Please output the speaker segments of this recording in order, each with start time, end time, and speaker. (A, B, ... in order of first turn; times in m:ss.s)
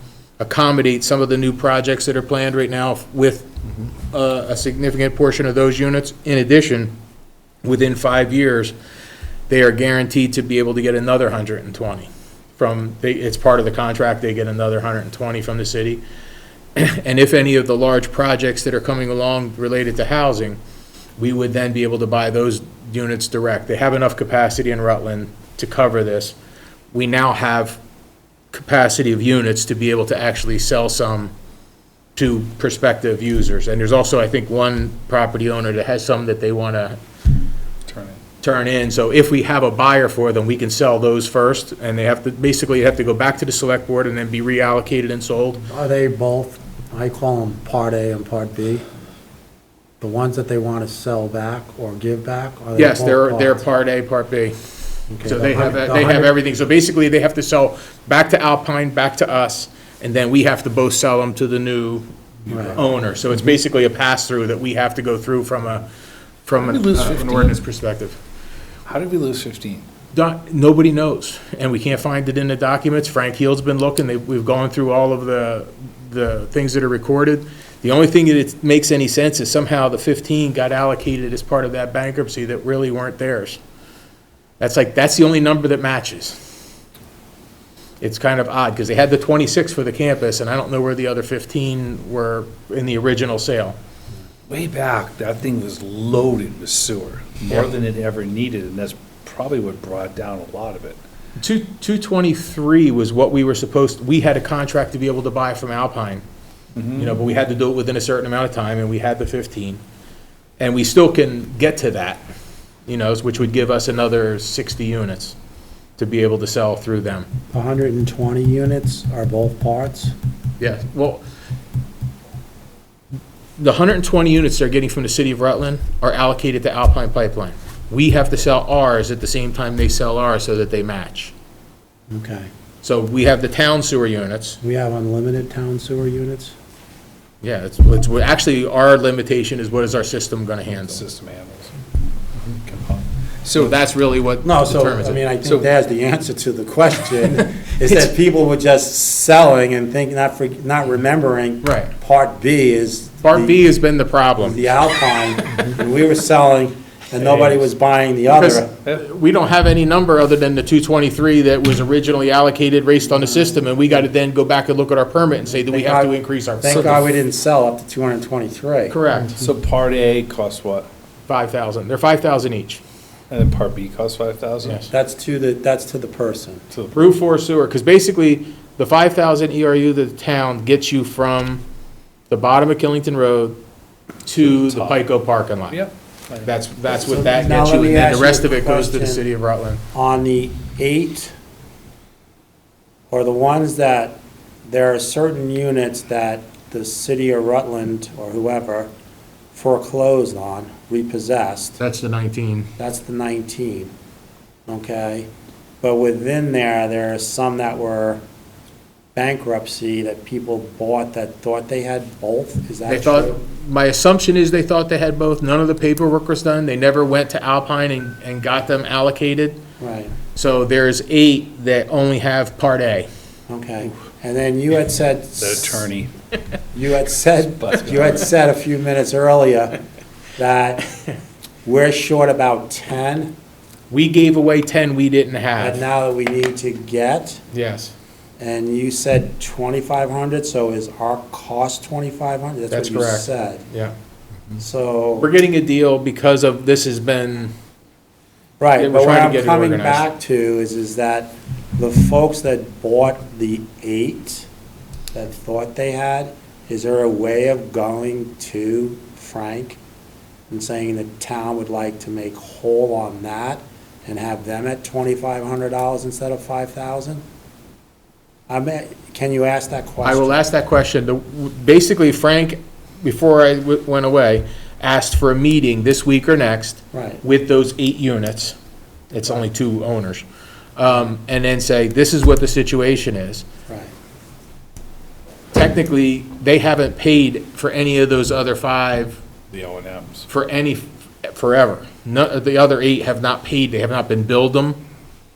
0:00.4-0:06.9 A
0:07.6-0:08.7 A
0:09.5-0:16.0 A
0:16.8-0:20.6 A
0:21.2-0:26.4 A
0:26.9-0:27.8 A
0:28.5-0:31.3 A
0:32.2-0:37.0 A
0:37.9-0:38.2 B
0:38.4-0:45.7 A
0:45.7-0:48.8 C
0:50.0-0:53.6 C
0:52.8-0:54.6 A
0:55.1-0:56.3 C
0:55.2-1:02.1 A
1:02.5-1:02.8 C
1:02.7-1:05.9 A
1:06.5-1:08.2 A
1:06.6-1:07.6 B
1:08.9-1:09.9 B
1:10.1-1:23.6 A
1:24.6-1:26.4 A
1:28.0-1:33.8 A
1:34.5-1:41.0 B
1:41.4-1:46.2 A
1:46.8-1:47.2 B
1:47.0-1:49.8 A
1:50.6-1:52.2 A
1:52.9-1:55.4 A
1:56.0-1:57.3 A
1:57.5-2:00.1 C
2:00.6-2:01.2 A
2:03.6-2:11.3 A
2:12.1-2:12.5 C
2:12.8-2:14.6 A
2:14.6-2:16.6 C
2:17.4-2:21.0 A
2:20.7-2:21.7 B
2:22.5-2:23.8 B
2:23.5-2:25.2 A
2:24.4-2:33.6 C
2:25.4-2:25.7 B
2:31.6-2:31.9 A
2:33.2-2:34.7 A
2:34.4-2:38.7 C
2:37.2-2:37.6 A
2:38.3-2:47.0 A
2:43.2-2:43.7 C
2:45.5-2:49.0 C
2:46.7-2:46.9 B
2:48.9-2:49.4 A
2:49.3-2:50.9 B
2:51.3-2:52.8 A
2:53.3-2:54.8 B
2:54.6-2:54.9 A
2:54.9-2:56.6 C
2:56.7-2:57.2 B
2:56.9-3:01.6 A
3:02.3-3:03.6 A
3:04.3-3:05.8 A
3:04.4-3:05.0 B
3:05.7-3:06.5 B
3:06.4-3:09.8 A
3:06.9-3:09.2 C
3:09.9-3:11.3 C
3:13.1-3:18.9 C
3:19.5-3:21.8 C
3:21.8-3:22.7 A
3:22.8-3:23.9 C
3:24.7-3:25.3 C
3:25.8-3:28.2 C
3:29.2-3:33.4 C
3:32.9-3:39.6 A
3:39.8-3:40.2 C
3:40.3-3:43.1 A
3:43.5-3:45.9 C
3:45.4-3:46.1 B
3:46.7-3:49.8 C
3:47.6-3:48.2 B
3:50.4-3:50.9 C
3:51.6-3:53.3 C
3:53.9-3:55.8 A
3:55.6-3:57.4 C
3:57.5-3:57.9 A
3:58.4-4:03.6 C
4:02.7-4:04.0 A
4:04.6-4:05.3 C
4:05.2-4:07.5 A
4:08.6-4:14.5 C
4:08.8-4:10.0 A
4:15.1-4:19.8 C
4:20.5-4:27.2 C
4:28.5-4:30.4 C
4:30.0-4:38.6 A
4:36.9-4:37.2 C
4:39.1-4:40.2 A
4:40.8-4:43.4 A
4:45.5-4:49.2 A
4:49.5-4:50.3 B
4:50.3-4:54.8 A